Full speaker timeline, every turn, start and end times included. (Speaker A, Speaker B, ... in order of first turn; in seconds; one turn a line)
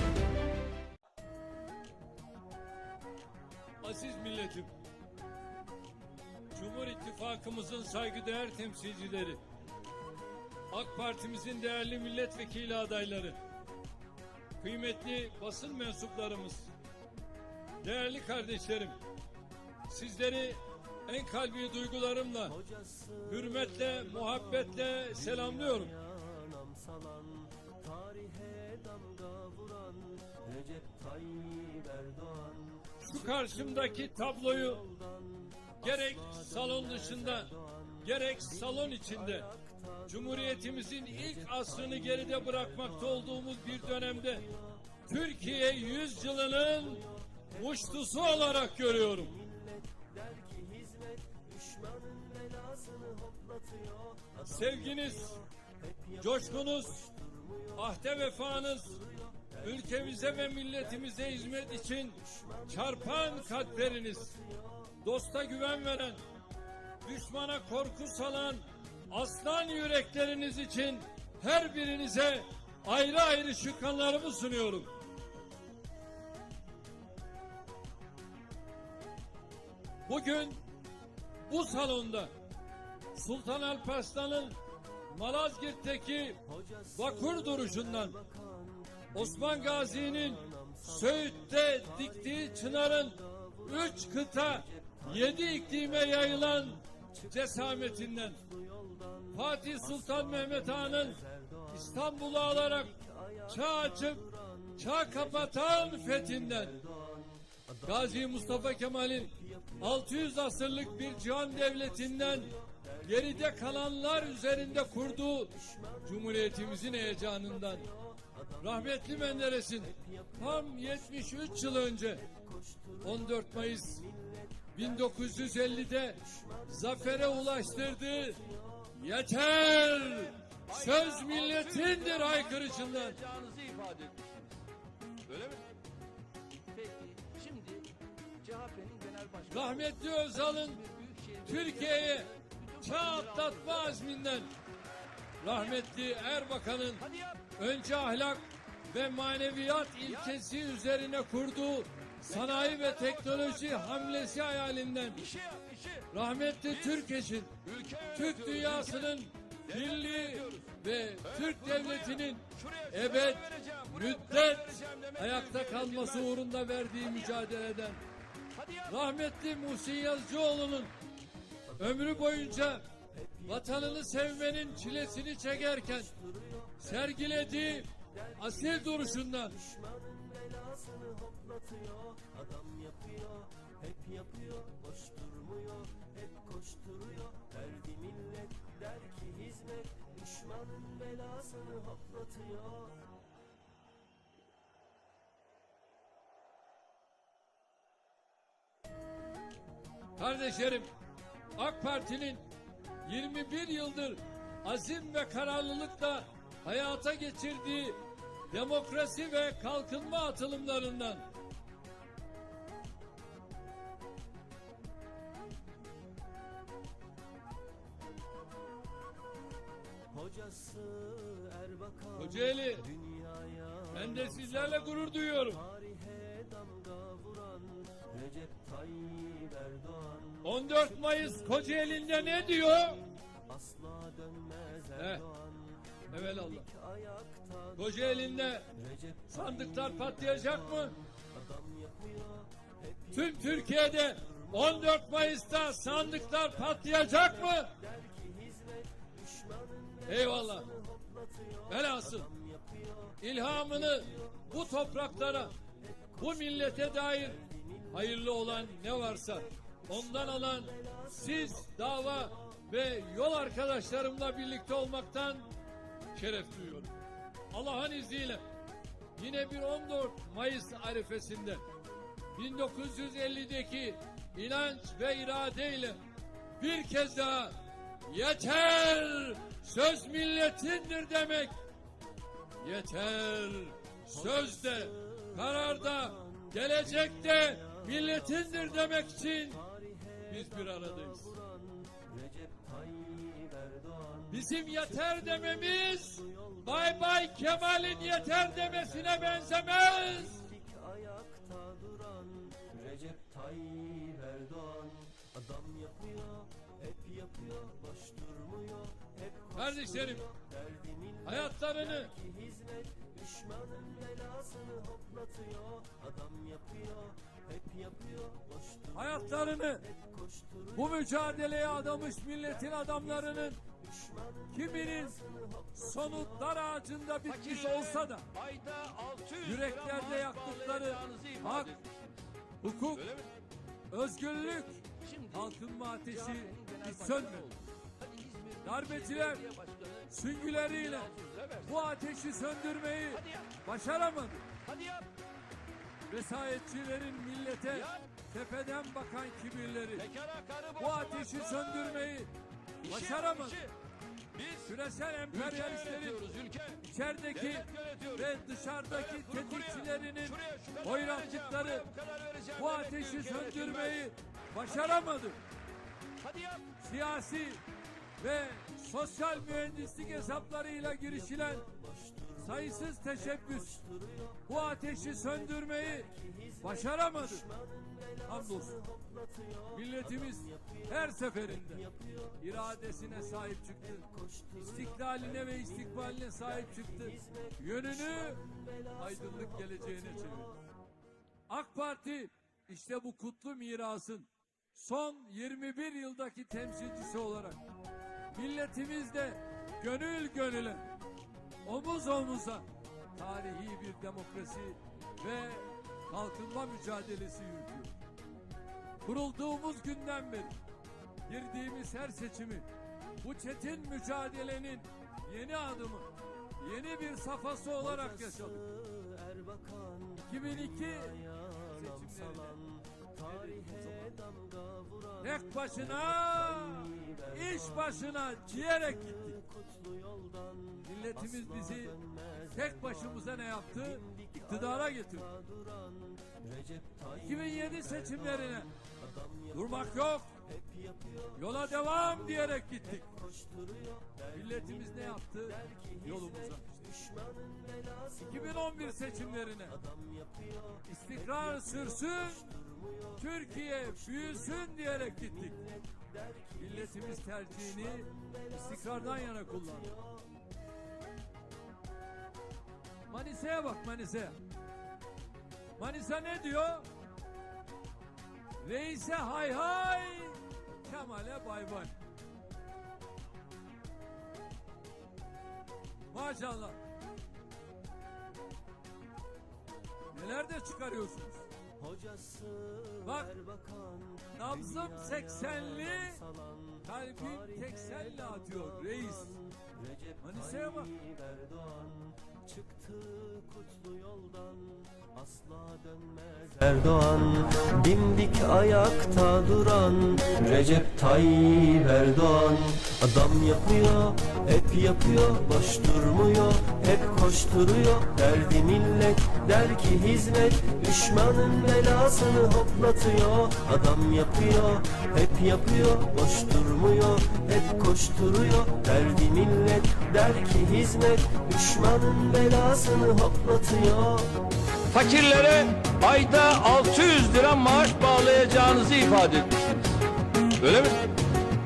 Speaker A: 3.8-4.7
Speaker A: 6.5-9.4
Speaker A: 10.7-13.4
Speaker A: 14.6-16.7
Speaker A: 17.8-19.0
Speaker A: 19.9-22.6
Speaker A: 23.2-25.9
Speaker B: 26.3-32.6
Speaker A: 33.0-34.9
Speaker A: 35.8-39.5
Speaker A: 40.1-44.5
Speaker A: 45.0-49.4
Speaker B: 49.5-54.4
Speaker A: 54.4-55.4
Speaker A: 56.1-57.1
Speaker A: 57.7-64.4
Speaker A: 65.0-66.2
Speaker A: 67.0-74.9
Speaker A: 80.0-80.6
Speaker A: 81.5-82.3
Speaker A: 83.1-84.6
Speaker A: 85.1-88.2
Speaker B: 88.4-88.7
Speaker A: 89.1-98.4
Speaker A: 99.3-106.8
Speaker A: 107.8-117.9
Speaker A: 118.6-122.3
Speaker A: 123.0-124.1
Speaker A: 124.7-133.2
Speaker C: 130.7-134.5
Speaker C: 135.3-135.7
Speaker C: 136.7-137.9
Speaker C: 138.4-144.0
Speaker A: 139.5-140.8
Speaker A: 141.4-144.5
Speaker A: 145.4-155.3
Speaker C: 147.0-147.4
Speaker C: 155.2-156.1
Speaker A: 156.1-168.0
Speaker C: 157.6-159.1
Speaker C: 159.8-160.7
Speaker C: 161.7-162.0
Speaker C: 162.5-166.2
Speaker C: 168.5-168.9
Speaker A: 168.8-170.9
Speaker A: 171.8-172.8
Speaker A: 173.4-179.7
Speaker B: 179.9-192.8
Speaker A: 200.2-200.9
Speaker A: 201.6-202.4
Speaker A: 203.0-211.2
Speaker B: 220.1-222.1
Speaker A: 222.1-222.9
Speaker A: 223.9-225.7
Speaker B: 225.8-230.3
Speaker A: 230.4-233.1
Speaker B: 233.5-234.8
Speaker A: 234.9-235.3
Speaker A: 236.1-236.7
Speaker A: 237.7-238.7
Speaker A: 239.3-241.0
Speaker B: 241.5-242.3
Speaker A: 243.1-247.8
Speaker B: 247.9-250.0
Speaker A: 250.1-250.8
Speaker B: 251.0-251.4
Speaker A: 251.7-252.3
Speaker A: 253.2-255.5
Speaker A: 256.2-265.5
Speaker A: 266.1-266.9
Speaker A: 267.5-268.4
Speaker A: 269.1-271.6
Speaker A: 272.3-276.0
Speaker A: 276.6-281.6
Speaker A: 282.6-291.4
Speaker B: 291.8-294.1
Speaker A: 294.3-300.6
Speaker B: 300.6-309.5
Speaker A: 309.5-310.3
Speaker A: 311.2-312.2
Speaker B: 312.2-318.8
Speaker A: 318.9-319.9
Speaker A: 320.7-323.6
Speaker A: 324.5-328.3
Speaker C: 327.3-332.2
Speaker A: 329.4-331.8
Speaker A: 332.6-333.2
Speaker C: 333.0-333.3
Speaker A: 333.9-337.5
Speaker C: 334.8-341.8
Speaker A: 338.6-339.4
Speaker A: 340.1-341.1
Speaker A: 341.6-344.5
Speaker C: 343.1-343.5
Speaker C: 344.6-345.1
Speaker A: 346.1-350.1
Speaker C: 347.7-348.0
Speaker C: 350.0-351.9
Speaker A: 350.8-352.3
Speaker A: 352.8-353.7
Speaker C: 352.8-353.7
Speaker C: 354.3-354.7
Speaker A: 354.6-361.9
Speaker C: 355.3-356.8
Speaker C: 357.4-358.2
Speaker C: 359.1-364.0
Speaker A: 362.5-365.4
Speaker C: 366.2-366.7
Speaker A: 366.8-367.6
Speaker A: 368.2-371.7
Speaker A: 372.3-373.9
Speaker A: 374.4-377.6
Speaker A: 378.1-378.9
Speaker A: 379.6-390.5
Speaker A: 391.5-397.6
Speaker A: 398.3-400.9
Speaker A: 401.6-407.9
Speaker A: 409.0-410.6
Speaker A: 411.3-412.7
Speaker A: 413.2-418.7
Speaker B: 418.8-420.2
Speaker A: 420.2-422.6
Speaker B: 422.1-425.0
Speaker A: 423.2-424.2
Speaker A: 425.2-429.4
Speaker B: 429.7-430.4
Speaker A: 430.8-435.3
Speaker B: 435.7-437.0
Speaker A: 437.1-438.7
Speaker A: 439.5-440.3
Speaker A: 441.3-443.2
Speaker B: 443.4-444.0
Speaker A: 444.3-447.0
Speaker B: 447.1-448.0
Speaker A: 448.2-449.8
Speaker A: 450.8-455.7
Speaker A: 456.5-460.0
Speaker A: 463.1-464.4
Speaker A: 465.8-466.9
Speaker A: 468.6-471.9
Speaker A: 476.1-476.8
Speaker A: 480.1-481.5
Speaker B: 481.8-482.9
Speaker A: 483.0-483.4
Speaker B: 483.6-484.2
Speaker A: 484.2-489.4
Speaker A: 490.2-491.0
Speaker B: 491.1-524.3
Speaker C: 524.9-529.9
Speaker C: 530.6-531.0